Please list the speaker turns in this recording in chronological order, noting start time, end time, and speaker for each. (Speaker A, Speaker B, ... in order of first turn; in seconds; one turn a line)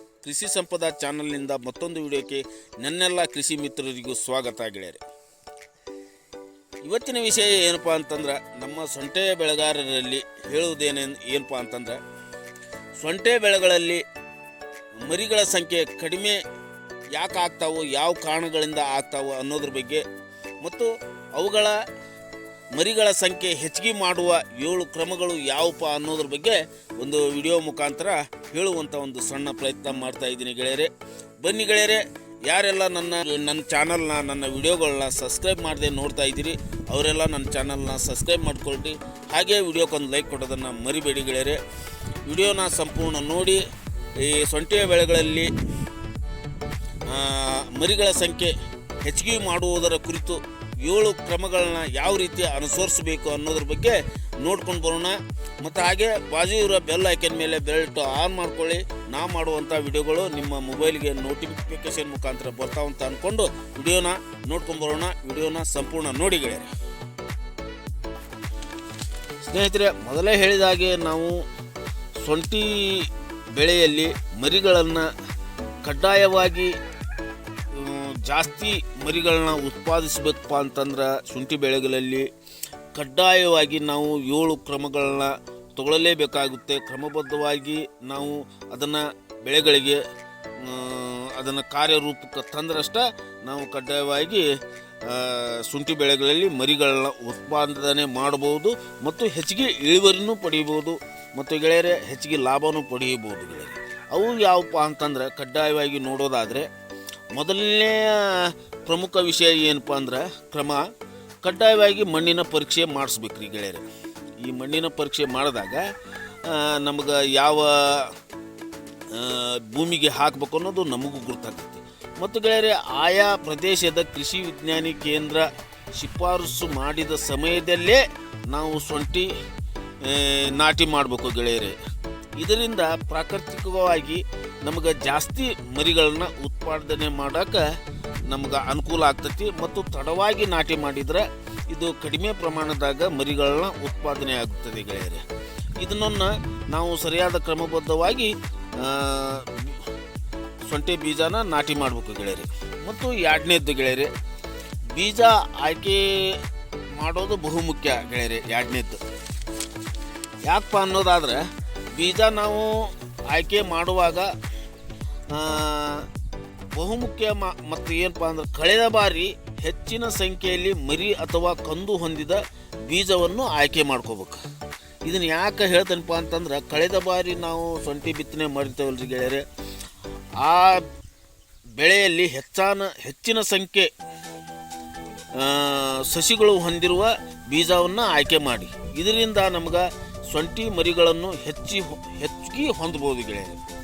Speaker A: 0.2-5.0
Speaker A: 6.8-12.0
Speaker A: 13.0-14.0
Speaker A: 15.0-16.4
Speaker A: 17.1-20.0
Speaker A: 20.6-21.8
Speaker A: 22.7-41.6
Speaker A: 42.2-43.6
Speaker A: 44.2-45.5
Speaker A: 47.1-66.7
Speaker A: 69.4-71.4
Speaker A: 72.2-75.1
Speaker A: 75.8-76.7
Speaker A: 77.7-82.3
Speaker A: 83.0-90.0
Speaker A: 90.6-94.5
Speaker A: 95.0-106.7
Speaker A: 107.4-110.8
Speaker A: 111.4-113.9
Speaker A: 114.4-115.9
Speaker A: 116.5-118.1
Speaker A: 119.1-129.3
Speaker A: 130.0-131.8
Speaker A: 132.4-137.6
Speaker A: 138.3-145.2
Speaker A: 145.8-149.9
Speaker A: 150.7-154.1
Speaker A: 154.9-156.4
Speaker A: 157.0-159.0
Speaker A: 160.4-164.3
Speaker A: 165.3-166.1
Speaker A: 166.8-174.4
Speaker A: 175.1-179.4
Speaker A: 180.4-180.9
Speaker A: 181.8-183.9
Speaker A: 185.4-193.6